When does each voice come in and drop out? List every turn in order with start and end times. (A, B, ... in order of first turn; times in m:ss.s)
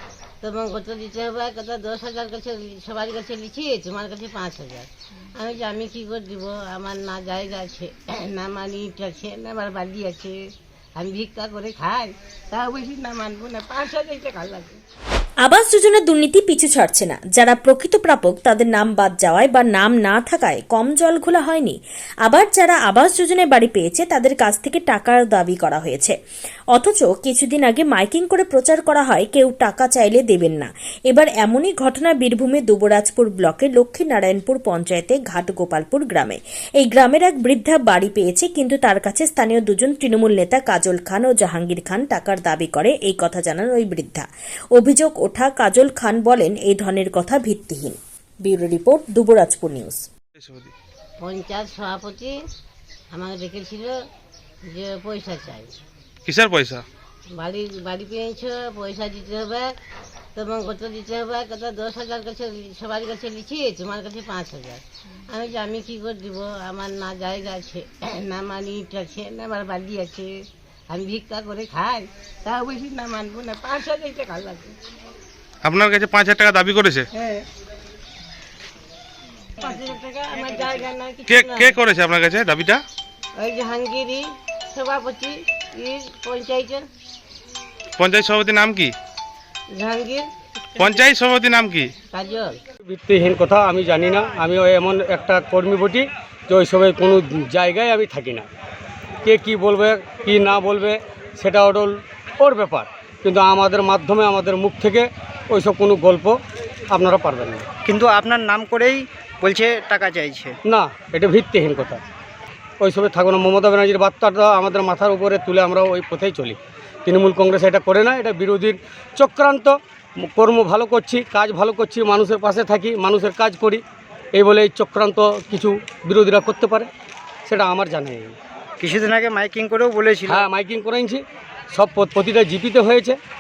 0:00.4-0:10.4 A
0:11.0-0:14.8 A
0:15.4-0:26.2 B
0:26.7-0:50.1 B
0:50.4-0:50.7 C
0:51.2-0:52.4 A
0:53.1-0:54.0 A
0:54.6-0:55.8 A
0:56.3-0:56.8 C
0:57.3-0:59.8 A
1:00.4-1:14.8 A
1:15.6-1:17.1 C
1:17.1-1:17.4 A
1:19.6-1:21.8 A
1:21.3-1:22.8 C
1:23.4-1:26.9 A
1:28.0-1:28.9 C
1:29.7-1:30.3 A
1:30.8-1:31.9 C
1:32.1-1:32.6 A
1:32.8-1:38.5 D
1:39.2-1:46.4 D
1:46.9-1:47.7 D
1:47.8-1:50.6 E
1:50.7-1:52.0 D
1:52.8-2:03.8 D
2:04.4-2:06.9 D
2:07.5-2:08.4 D
2:08.8-2:10.5 E
2:10.3-2:11.2 D
2:11.7-2:13.2 D